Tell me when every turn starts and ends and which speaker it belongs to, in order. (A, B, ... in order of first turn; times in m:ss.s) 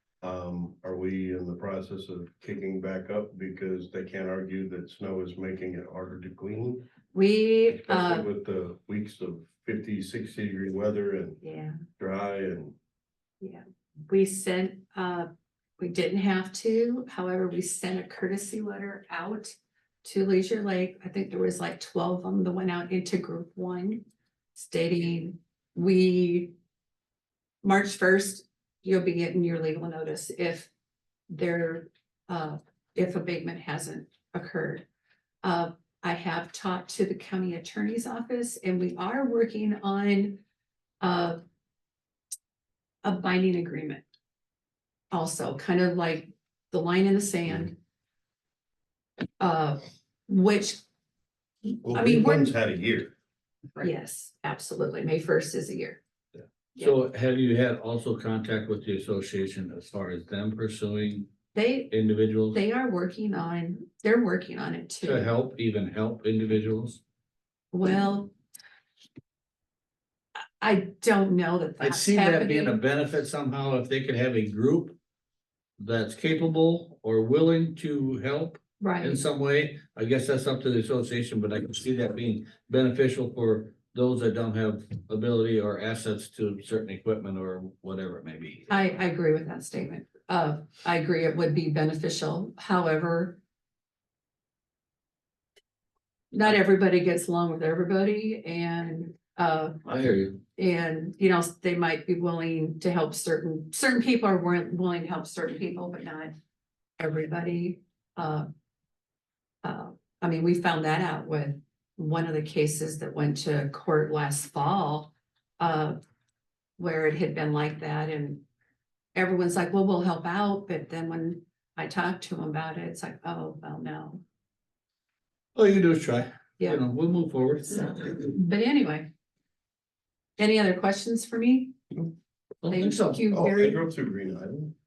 0:00.2-0:06.8 A
0:07.1-0:08.3 B
0:07.8-0:11.4 A
0:11.4-0:11.8 B
0:12.0-0:12.8 A
0:13.4-0:26.5 B
0:27.6-0:30.7 B
0:31.3-0:34.8 B
0:35.4-0:40.4 B
0:41.0-0:41.4 B
0:43.0-0:44.0 B
0:45.1-0:47.8 B
0:49.4-0:50.8 B
0:51.8-0:53.1 A
0:51.9-0:52.5 B
0:53.8-0:56.0 B
0:56.8-1:01.3 C
1:01.5-1:01.9 B
1:01.9-1:02.6 C
1:02.5-1:05.3 B
1:05.0-1:07.0 C
1:07.7-1:08.3 B
1:10.6-1:12.8 B
1:11.8-1:15.0 C
1:15.8-1:28.7 C
1:18.8-1:19.2 B
1:28.7-1:33.4 B
1:36.3-1:46.3 B
1:39.9-1:40.4 C
1:47.0-1:48.5 B
1:49.6-1:56.0 B
1:56.8-1:58.4 B
1:59.1-2:04.2 B
2:05.6-2:08.2 C
2:07.8-2:09.1 B
2:10.4-2:11.7 B
2:12.6-2:13.3 C
2:12.7-2:13.8 B
2:13.3-2:14.7 A